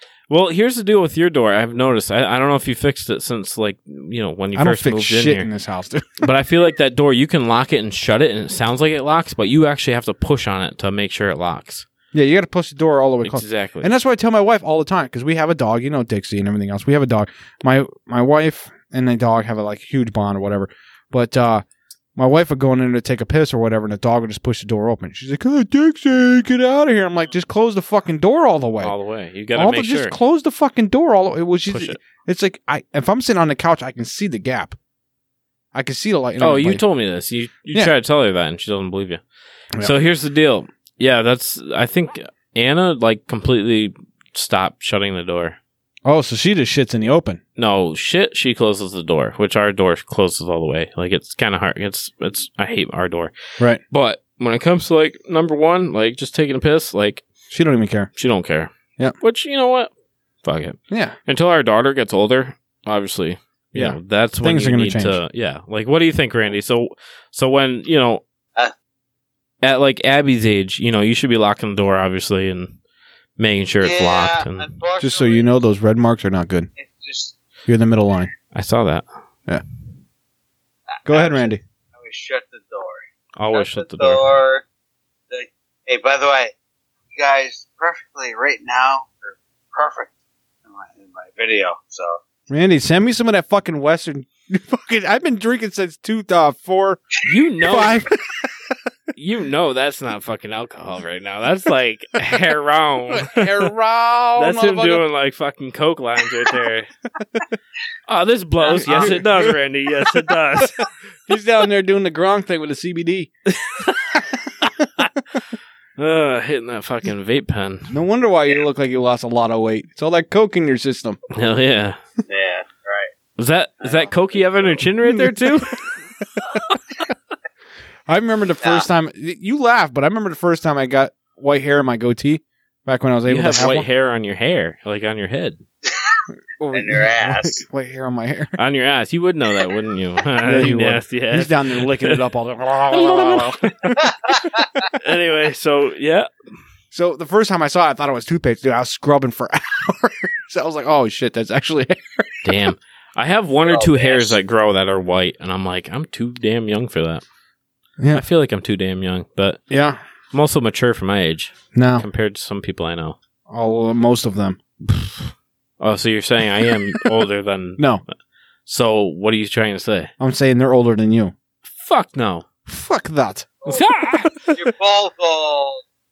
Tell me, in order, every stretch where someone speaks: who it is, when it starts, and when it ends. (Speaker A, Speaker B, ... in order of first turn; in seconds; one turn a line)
Speaker A: 0.3-5.5
Speaker B: 4.5-6.3
Speaker A: 6.2-11.8
Speaker B: 12.1-21.6
Speaker A: 13.2-13.9
Speaker B: 22.1-28.9
Speaker A: 28.8-30.1
Speaker B: 29.5-34.8
Speaker A: 31.7-32.0
Speaker B: 35.7-36.8
Speaker A: 36.4-39.2
Speaker A: 39.8-45.6
Speaker B: 46.0-47.4
Speaker A: 47.6-53.3
Speaker A: 53.9-57.2
Speaker B: 57.5-58.1
Speaker A: 58.1-59.9
Speaker A: 60.4-68.2
Speaker B: 60.9-61.2
Speaker B: 63.7-65.2
Speaker A: 69.6-72.8
Speaker A: 73.4-74.7
Speaker C: 73.8-75.5
Speaker B: 75.0-76.7
Speaker C: 76.8-77.4
Speaker B: 77.7-78.3
Speaker A: 78.5-79.0
Speaker C: 80.9-84.6
Speaker B: 81.0-81.6
Speaker A: 83.3-84.2
Speaker C: 85.3-86.5
Speaker C: 87.1-90.1
Speaker C: 90.7-92.2
Speaker B: 92.5-97.0
Speaker A: 97.2-98.0
Speaker B: 97.6-98.5
Speaker A: 99.1-103.7
Speaker B: 103.1-105.0
Speaker A: 104.4-106.9
Speaker A: 108.1-110.8
Speaker B: 108.6-109.6
Speaker B: 110.1-110.7
Speaker B: 111.3-113.3
Speaker A: 113.5-115.1
Speaker A: 116.0-117.9
Speaker B: 117.9-121.2
Speaker A: 121.3-122.0
Speaker C: 122.3-123.1
Speaker A: 123.4-125.8
Speaker C: 123.8-124.8
Speaker B: 125.0-125.5
Speaker B: 128.1-133.8
Speaker C: 128.6-128.9
Speaker A: 133.3-135.6
Speaker C: 135.8-136.2
Speaker B: 136.6-138.6
Speaker C: 136.7-137.6
Speaker A: 138.6-142.2
Speaker B: 140.4-143.7
Speaker A: 142.9-144.1
Speaker C: 144.0-144.8
Speaker A: 144.9-146.3
Speaker B: 146.9-152.7
Speaker A: 152.4-157.2
Speaker C: 153.7-154.4
Speaker B: 158.0-158.2
Speaker A: 158.1-159.6
Speaker B: 159.7-160.0
Speaker A: 160.3-163.2
Speaker B: 161.7-162.1
Speaker B: 163.5-164.6
Speaker A: 165.8-167.9
Speaker A: 168.7-170.1
Speaker B: 170.2-171.3
Speaker A: 171.7-172.4
Speaker B: 172.7-173.6
Speaker A: 173.7-174.6
Speaker C: 174.4-175.8